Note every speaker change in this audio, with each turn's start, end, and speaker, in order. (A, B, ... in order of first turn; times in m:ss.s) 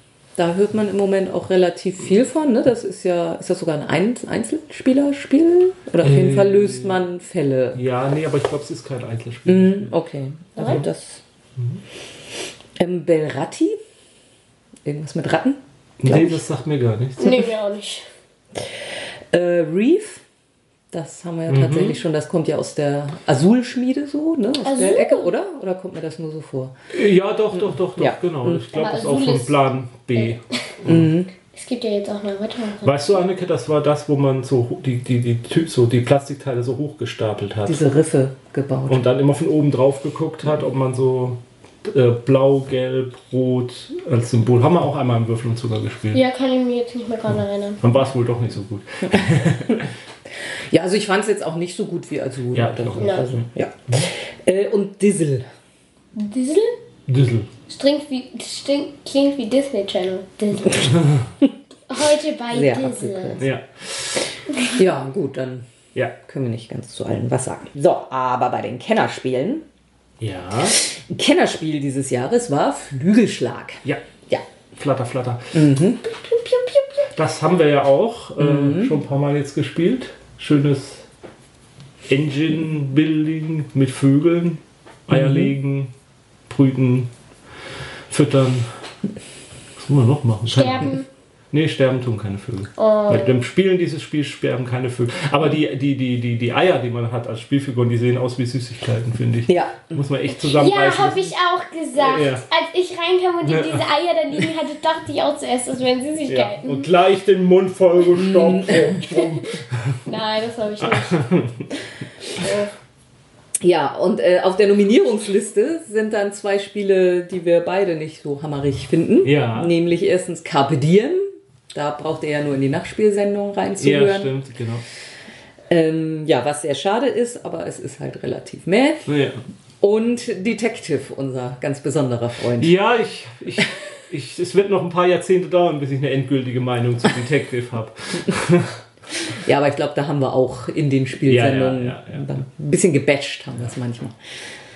0:00.4-0:07.8 A
0:06.0-0:07.0 B
0:07.7-0:09.9 B
0:09.5-0:11.2 A
0:12.8-0:13.8 A
0:14.8-0:16.4 A
0:16.0-0:17.5 B
0:17.2-0:18.1 C
0:19.3-0:20.2 A
0:20.9-0:26.7 A
0:21.5-0:22.0 B
0:24.6-0:25.3 C
0:26.9-0:31.1 B
0:28.0-0:28.7 A
0:28.7-0:30.4 C
0:30.8-0:31.3 A
0:31.5-0:33.2 C
0:32.8-0:37.8 B
0:37.6-0:39.0 A
0:38.9-0:46.2 B
0:46.1-0:47.8 C
0:47.8-0:49.9 B
0:50.7-0:55.5 A
0:52.5-0:53.5 B
0:56.2-0:56.8 C
0:57.1-0:57.5 B
0:57.7-1:00.9 C
1:01.9-1:03.4 C
1:02.5-1:03.5 A
1:03.4-1:03.8 B
1:04.8-1:05.6 A
1:06.2-1:09.6 A
1:10.2-1:10.8 B
1:10.8-1:14.4 A
1:14.8-1:15.6 B
1:15.5-1:16.0 A
1:17.2-1:21.1 B
1:18.4-1:19.0 A
1:22.1-1:25.9 B
1:25.1-1:25.5 A
1:26.5-1:27.1 B
1:28.1-1:28.7 B
1:29.8-1:31.0 B
1:30.5-1:31.1 C
1:31.5-1:41.3 B
1:32.8-1:33.4 C
1:39.5-1:39.8 A
1:40.5-1:46.9 C
1:42.0-1:42.4 B
1:43.4-1:43.8 B
1:46.3-1:49.5 B
1:48.1-1:48.9 A
1:50.1-1:51.2 C
1:50.8-1:51.5 B
1:52.4-1:52.7 C
1:53.6-2:04.4 A
1:59.2-1:59.7 B
2:03.8-2:04.8 B
2:05.7-2:09.1 A
2:09.1-2:09.4 B
2:09.8-2:12.8 A
2:12.6-2:18.8 B
2:19.4-2:24.2 A
2:21.2-2:22.4 B